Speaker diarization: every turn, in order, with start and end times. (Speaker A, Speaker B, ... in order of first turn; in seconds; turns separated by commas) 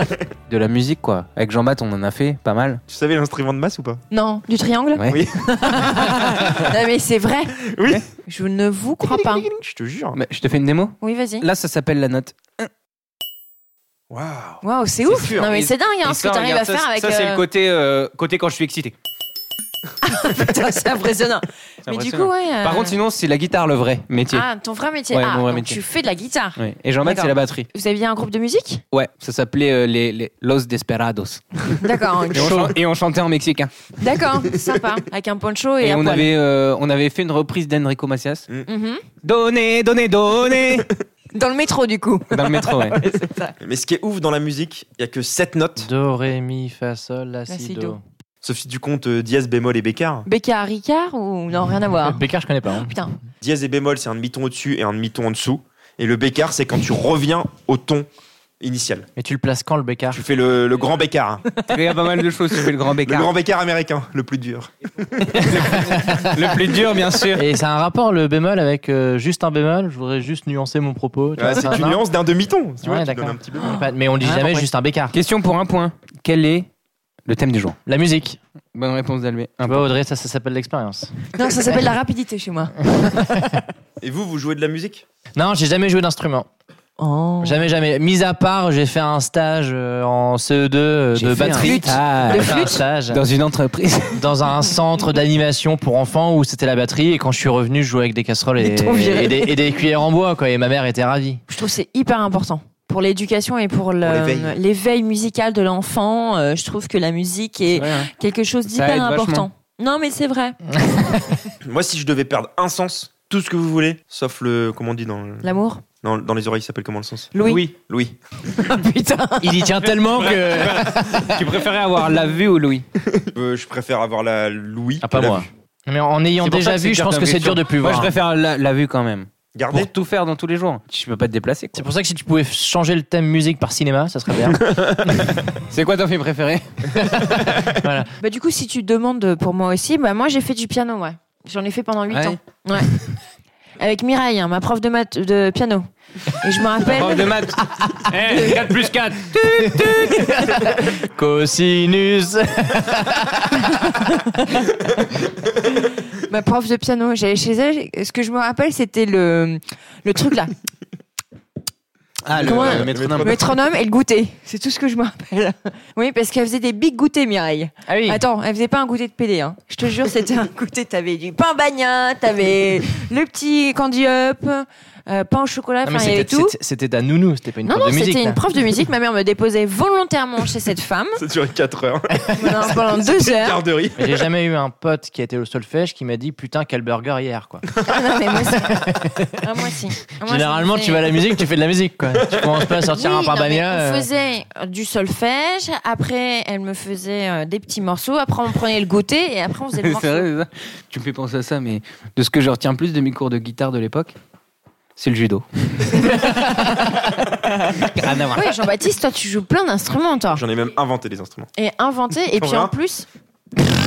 Speaker A: 0.5-2.8, Speaker B: 2.9-4.0, Speaker C: 4.1-7.6, Speaker A: 5.0-5.2, Speaker B: 5.1-6.5, Speaker B: 7.6-8.0, Speaker C: 8.3-9.4, Speaker B: 9.0-10.2, Speaker A: 10.2-12.7, Speaker C: 11.0-11.5, Speaker B: 14.1-15.5, Speaker C: 14.6-17.4, Speaker A: 15.5-18.9, Speaker C: 20.0-23.0, Speaker A: 21.9-24.5, Speaker C: 24.3-28.8, Speaker A: 25.1-25.8, Speaker A: 26.6-27.7, Speaker A: 28.9-31.8, Speaker C: 31.8-32.6, Speaker A: 32.3-33.7, Speaker D: 32.4-32.8, Speaker C: 34.0-36.3, Speaker A: 35.8-38.5, Speaker C: 38.7-39.0, Speaker A: 39.2-40.9, Speaker C: 41.3-43.6, Speaker A: 42.3-43.0, Speaker B: 43.6-45.9, Speaker D: 45.8-48.0, Speaker C: 47.5-48.0, Speaker B: 48.4-50.2, Speaker C: 50.2-52.2, Speaker D: 52.0-53.0, Speaker C: 52.9-53.1, Speaker B: 53.4-58.1, Speaker B: 58.6-59.1, Speaker D: 59.2-60.2, Speaker B: 60.1-61.4, Speaker A: 61.7-63.3, Speaker B: 63.0-65.5, Speaker A: 65.4-67.5, Speaker D: 65.6-66.3, Speaker D: 67.3-72.0, Speaker B: 71.4-73.8, Speaker D: 72.8-75.2, Speaker C: 73.6-74.6, Speaker A: 75.1-76.7, Speaker A: 77.3-77.8, Speaker D: 77.9-78.4, Speaker A: 78.7-79.9, Speaker D: 79.7-81.3, Speaker C: 81.3-82.7, Speaker D: 83.0-83.6, Speaker B: 84.0-85.0, Speaker D: 85.3-86.5, Speaker C: 87.0-87.6, Speaker D: 87.4-93.2, Speaker A: 91.2-94.2, Speaker C: 91.6-92.8, Speaker D: 94.2-101.4, Speaker C: 98.6-99.6, Speaker C: 101.5-110.6, Speaker B: 104.0-104.6, Speaker A: 107.8-108.1, Speaker A: 108.7-109.5, Speaker D: 110.8-111.2, Speaker B: 111.6-115.5, Speaker C: 115.4-115.8, Speaker B: 116.0-118.2, Speaker C: 117.3-117.7, Speaker A: 117.4-117.7, Speaker C: 118.6-119.7, Speaker D: 119.4-121.4, Speaker A: 119.8-122.9, Speaker B: 123.2-125.5, Speaker D: 125.0-128.1, Speaker A: 126.4-131.9, Speaker B: 129.6-129.9, Speaker D: 131.8-135.3, Speaker A: 135.7-136.9, Speaker D: 136.9-138.1, Speaker C: 138.2-143.0, Speaker A: 142.1-142.4, Speaker C: 143.8-147.3, Speaker A: 146.8-150.4, Speaker C: 148.3-148.6, Speaker D: 150.1-154.1, Speaker C: 153.9-154.6, Speaker C: 155.7-160.5, Speaker A: 162.2-163.4, Speaker B: 162.4-163.4, Speaker C: 162.4-176.6, Speaker D: 167.9-168.2, Speaker D: 175.8-178.4, Speaker C: 177.7-181.2, Speaker B: 181.2-184.2, Speaker D: 182.2-182.5, Speaker C: 182.4-183.6, Speaker D: 184.0-189.3, Speaker C: 187.8-191.1, Speaker D: 190.2-194.1, Speaker C: 192.9-200.3, Speaker A: 199.8-204.2, Speaker A: 205.0-206.2, Speaker A: 207.8-208.6, Speaker C: 208.3-210.4, Speaker B: 210.3-211.5, Speaker C: 211.6-213.1, Speaker B: 212.3-212.7